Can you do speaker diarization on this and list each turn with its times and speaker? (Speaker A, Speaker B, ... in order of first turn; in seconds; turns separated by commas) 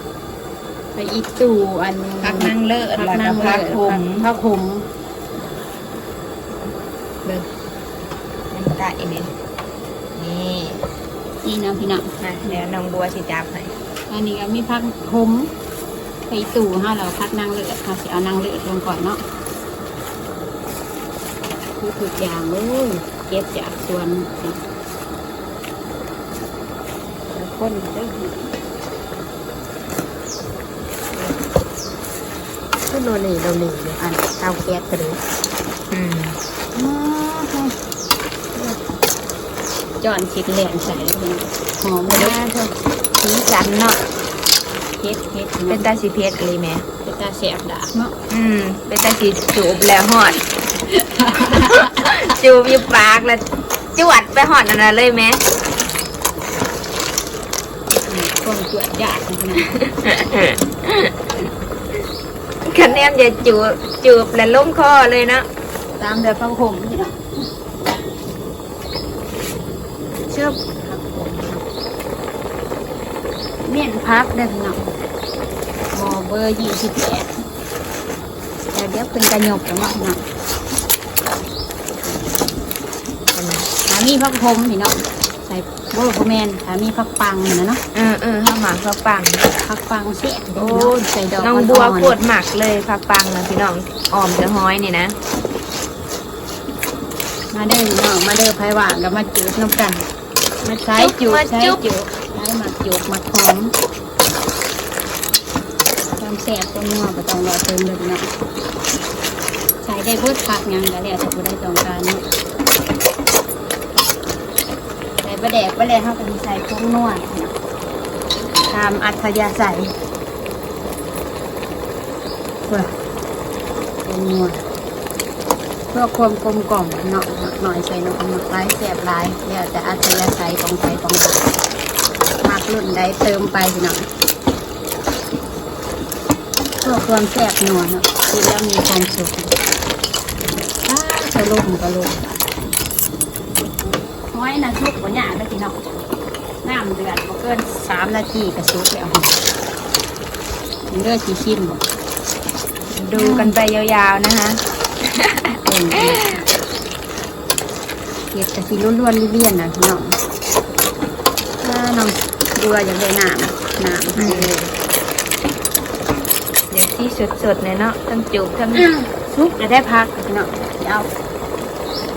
Speaker A: 0.9-4.9, Speaker B: 2.2-4.3, Speaker B: 8.5-9.3, Speaker B: 10.2-10.8, Speaker A: 11.4-12.6, Speaker B: 12.2-13.7, Speaker A: 14.1-15.5, Speaker A: 16.3-19.2, Speaker A: 21.8-24.6, Speaker A: 27.3-28.5, Speaker A: 32.9-35.2, Speaker B: 35.9-36.4, Speaker A: 36.8-37.8, Speaker A: 38.5-38.8, Speaker A: 40.0-42.4, Speaker B: 42.1-42.8, Speaker A: 43.2-44.0, Speaker A: 45.0-45.8, Speaker B: 45.7-46.9, Speaker A: 47.0-48.1, Speaker B: 48.3-50.4, Speaker A: 50.9-51.9, Speaker B: 51.5-55.4, Speaker A: 57.9-59.8, Speaker B: 59.8-61.2, Speaker B: 62.7-65.5, Speaker A: 66.0-67.2, Speaker A: 70.3-71.7, Speaker A: 73.6-75.0, Speaker A: 75.9-77.4, Speaker A: 78.7-80.2, Speaker B: 83.3-83.7, Speaker A: 83.9-87.8, Speaker B: 87.9-89.5, Speaker A: 89.5-92.2, Speaker B: 90.6-95.2, Speaker A: 97.5-100.0, Speaker B: 100.6-101.8, Speaker A: 100.8-103.8, Speaker A: 106.2-108.3, Speaker A: 109.8-112.2, Speaker A: 115.2-117.5, Speaker A: 118.6-120.0, Speaker A: 124.0-124.7, Speaker A: 125.9-131.6, Speaker A: 132.4-134.1, Speaker A: 136.8-139.5, Speaker A: 140.8-142.5, Speaker A: 143.8-146.1, Speaker A: 146.6-149.4, Speaker A: 150.9-151.8, Speaker B: 152.9-154.6, Speaker A: 153.2-153.5, Speaker B: 155.2-156.4, Speaker A: 155.6-156.4, Speaker A: 158.3-160.2, Speaker A: 161.6-164.6, Speaker B: 164.2-164.7, Speaker B: 166.7-168.9, Speaker A: 168.7-171.1